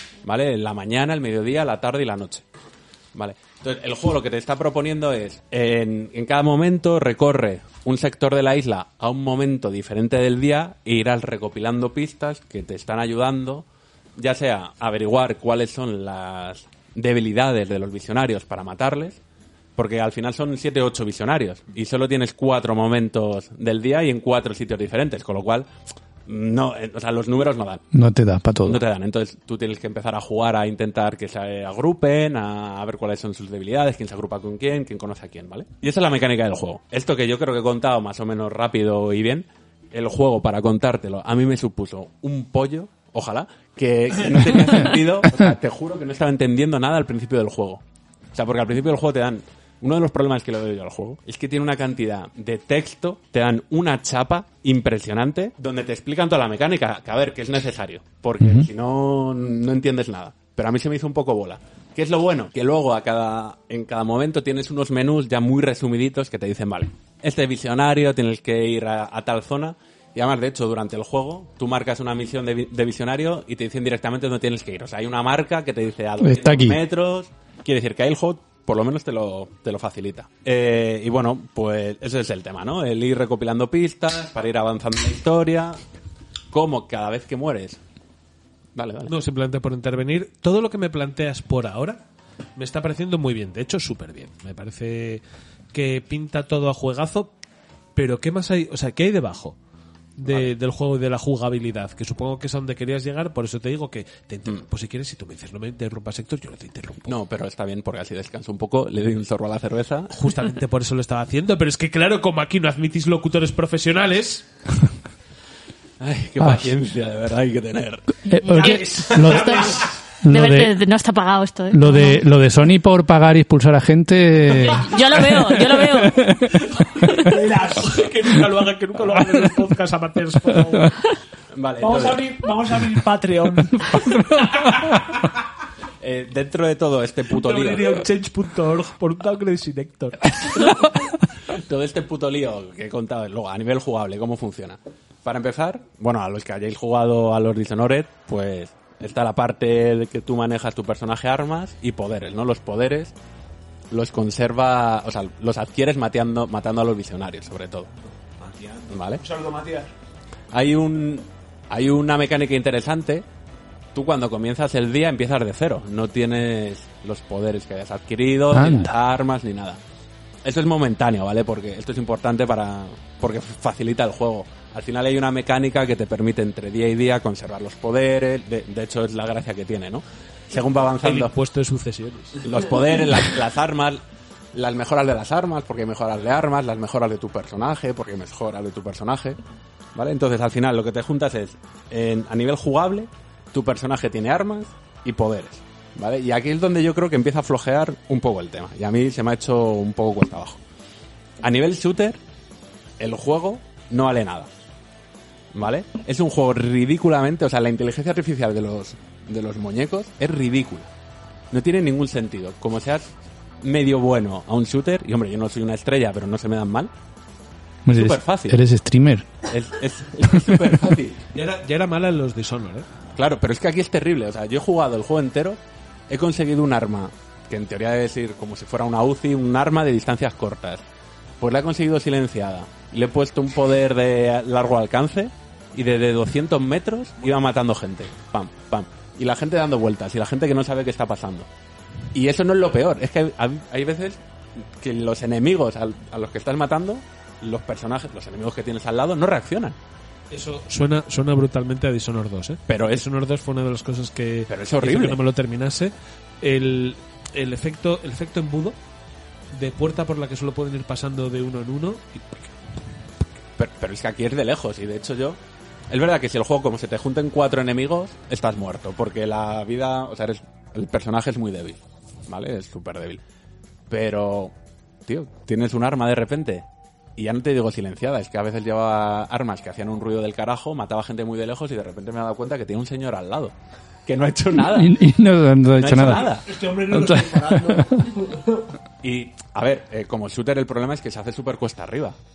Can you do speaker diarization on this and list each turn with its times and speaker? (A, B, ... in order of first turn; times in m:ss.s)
0:00.2-0:02.4 A
0:03.1-0:19.2 A
0:19.8-0:25.7 A
0:26.2-0:27.8 A
0:27.9-0:28.8 B
0:28.6-0:47.8 A
0:48.3-1:25.8 A
0:58.4-0:58.6 B
1:16.2-1:16.8 B
1:26.5-1:27.8 A
1:28.7-1:29.1 A
1:29.1-1:32.0 C
1:32.6-1:35.2 C
1:35.7-1:37.3 C
1:38.0-1:39.6 C
1:40.2-1:47.1 C
1:40.2-1:40.5 A
1:47.1-1:50.1 A
1:50.1-1:54.4 C
1:56.0-1:58.0 A
1:58.3-1:59.7 B
1:58.4-1:59.7 D
1:58.5-1:59.9 E
2:00.2-2:00.7 B
2:00.3-2:02.2 D
2:01.7-2:05.3 B
2:04.6-2:06.2 D
2:06.0-2:07.1 B
2:07.2-2:07.9 E
2:07.7-2:10.9 C
2:11.5-2:12.2 A
2:11.8-2:14.1 E
2:16.0-2:18.0 A
2:17.3-2:20.9 C
2:21.5-2:33.1 A
2:33.9-2:37.9 A
2:38.4-2:39.9 E
2:38.9-2:39.2 A
2:40.5-2:43.2 A
2:43.9-2:49.8 A
2:48.5-2:48.9 B
2:50.4-3:01.3 A
3:01.0-3:02.5 C
3:02.4-3:04.0 A
3:04.5-3:09.4 A
3:09.9-3:20.6 A
3:21.4-3:22.2 A
3:23.0-3:24.5 A
3:25.5-3:30.9 A
3:31.5-3:36.9 A
3:37.8-3:39.3 B
3:37.9-3:38.6 A
3:39.4-3:41.2 A
3:41.3-3:42.8 C
3:43.2-3:50.8 A
3:51.4-4:01.5 A
4:02.1-4:09.8 A
4:10.3-4:18.8 C
4:12.7-4:13.0 A
4:14.5-4:15.2 A
4:19.5-4:22.5 C
4:23.6-4:25.4 A
4:25.9-4:33.2 A
4:33.9-4:34.5 A
4:35.0-4:43.5 A
4:44.0-4:45.0 A
4:44.6-4:47.8 B
4:45.7-4:46.5 A
4:46.3-4:48.5 E
4:49.0-4:52.2 A